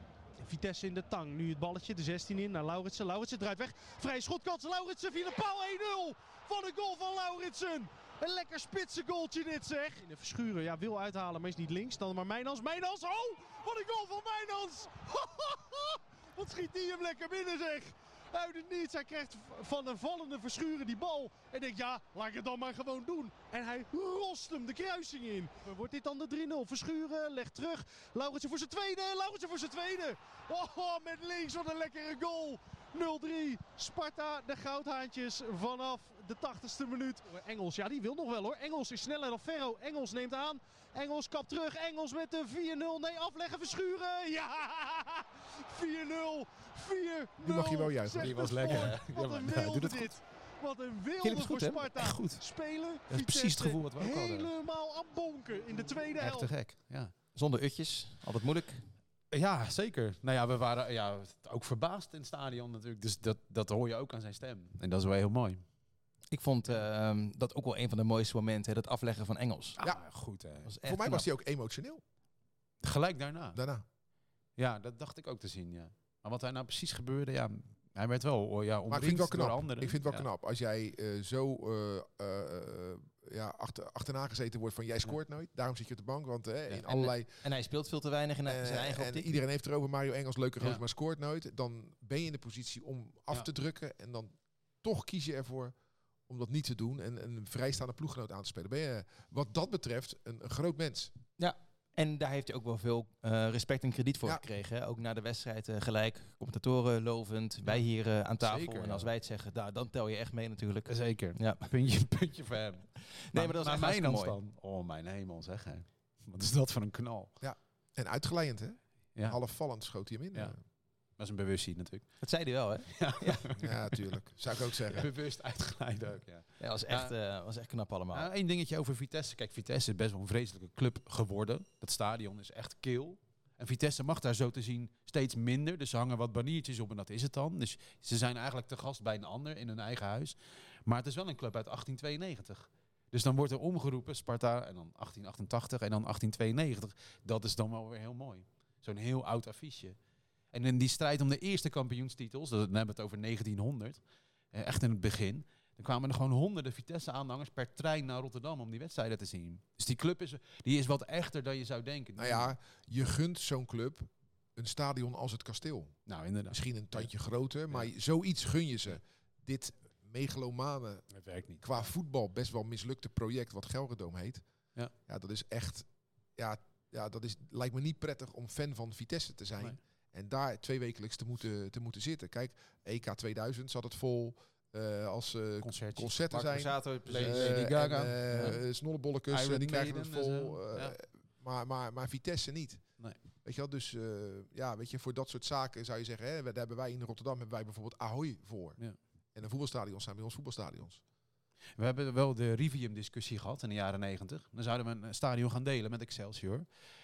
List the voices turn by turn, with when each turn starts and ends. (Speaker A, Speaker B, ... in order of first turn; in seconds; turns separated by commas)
Speaker A: 0.4-56.5, Speaker B: 47.4-48.8, Speaker C: 48.2-50.2, Speaker D: 51.2-51.9, Speaker C: 52.0-52.4, Speaker C: 53.1-54.5, Speaker C: 56.2-57.1, Speaker D: 57.4-58.8, Speaker C: 59.3-65.6, Speaker D: 66.3-69.8, Speaker C: 69.8-70.7, Speaker D: 70.7-71.3, Speaker B: 70.8-72.0, Speaker C: 72.8-73.6, Speaker B: 73.5-73.8, Speaker C: 74.6-80.3, Speaker B: 78.9-87.3, Speaker D: 86.9-89.3, Speaker B: 88.5-95.7, Speaker B: 96.3-101.1, Speaker D: 101.4-111.6, Speaker C: 108.4-109.1, Speaker C: 110.9-117.3, Speaker D: 113.3-114.4, Speaker B: 117.4-120.6, Speaker C: 121.2-122.1, Speaker D: 122.2-123.5, Speaker C: 122.9-124.1, Speaker B: 123.6-125.1, Speaker C: 124.8-127.1, Speaker D: 126.6-128.3, Speaker C: 128.1-149.9, Speaker C: 150.5-154.0, Speaker C: 154.5-162.5, Speaker B: 162.2-165.9, Speaker C: 166.1-167.1, Speaker B: 166.5-171.1, Speaker C: 171.1-171.9, Speaker B: 171.6-174.4, Speaker B: 175.1-192.8, Speaker C: 185.6-186.2, Speaker D: 186.3-187.8, Speaker C: 187.1-188.6, Speaker C: 189.3-190.9, Speaker B: 193.4-198.8, Speaker B: 199.3-201.0, Speaker C: 201.8-206.7